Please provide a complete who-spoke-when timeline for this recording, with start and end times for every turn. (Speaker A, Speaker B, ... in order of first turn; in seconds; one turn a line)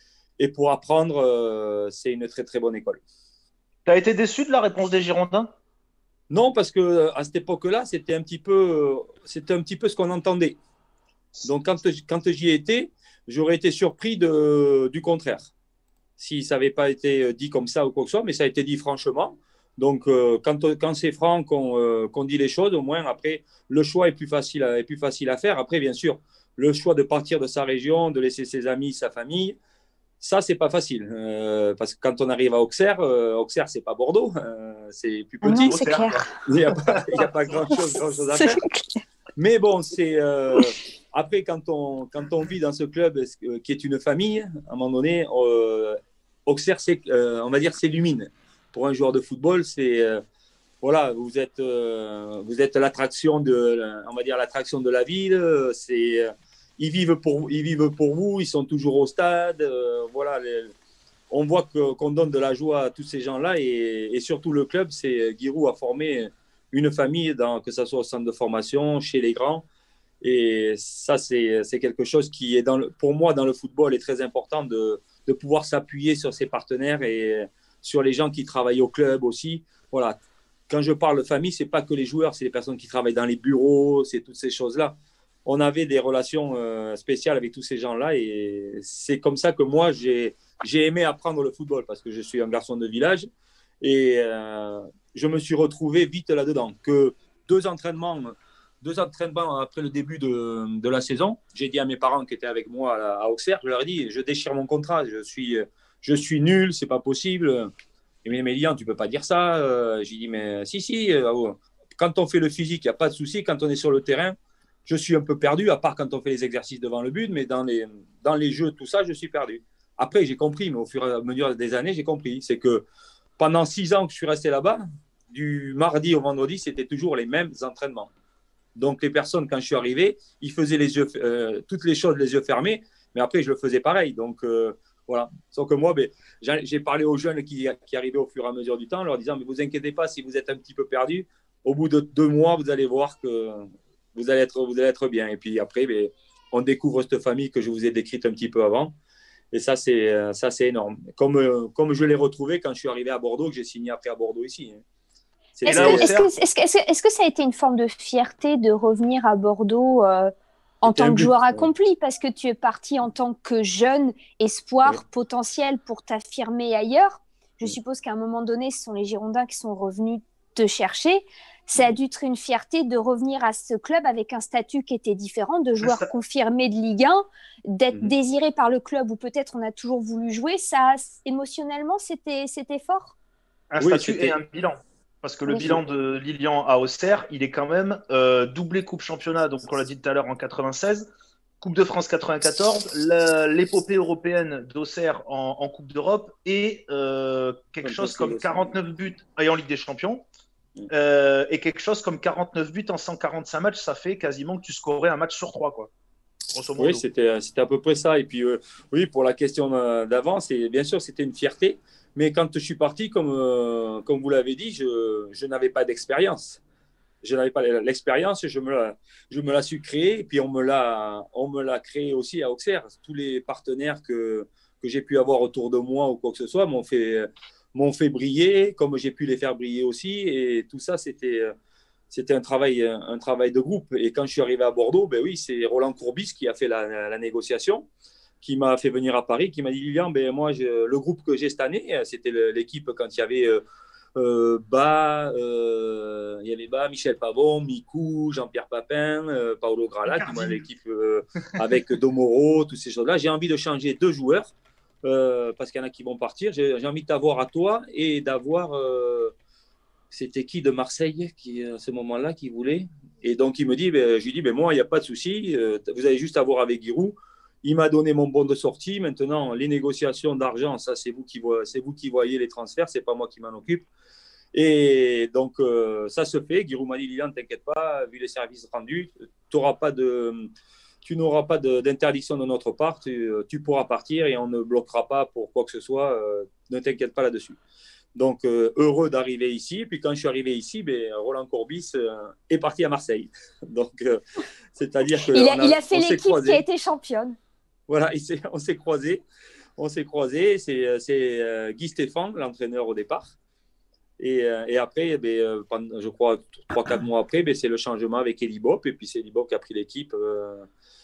Speaker A: 0.4-3.0
Speaker B: 3.9-5.5
Speaker A: 6.3-10.6
Speaker A: 11.4-15.5
Speaker A: 16.2-29.6
Speaker A: 30.2-38.6
Speaker C: 35.4-36.3
Speaker B: 35.5-36.3
Speaker B: 36.9-37.2
Speaker C: 37.8-39.0
Speaker A: 39.4-50.2
Speaker A: 50.8-60.7
Speaker A: 61.3-69.6
Speaker A: 70.2-80.2
Speaker A: 80.7-93.3
Speaker A: 93.8-107.7
Speaker A: 108.2-114.3
Speaker A: 114.8-122.8
Speaker A: 123.4-128.1
Speaker A: 128.8-148.9
Speaker A: 149.5-154.8
Speaker A: 155.6-156.1
Speaker C: 155.6-183.1
Speaker B: 155.7-156.3
Speaker A: 160.8-161.7
Speaker B: 183.7-191.1
Speaker A: 183.8-184.4
Speaker B: 191.6-200.2
Speaker A: 197.8-198.7
Speaker B: 200.9-205.9
Speaker B: 206.5-207.0
Speaker A: 206.8-216.6
Speaker A: 217.2-231.5
Speaker A: 232.1-237.9
Speaker A: 238.4-243.6
Speaker A: 244.2-254.5
Speaker B: 250.1-250.6
Speaker A: 255.0-259.3
Speaker A: 260.1-273.9
Speaker A: 274.5-280.5
Speaker A: 281.0-287.6
Speaker A: 288.1-294.2
Speaker A: 294.7-296.6
Speaker C: 295.3-297.4
Speaker A: 297.9-299.2
Speaker A: 299.8-303.3
Speaker A: 304.2-310.6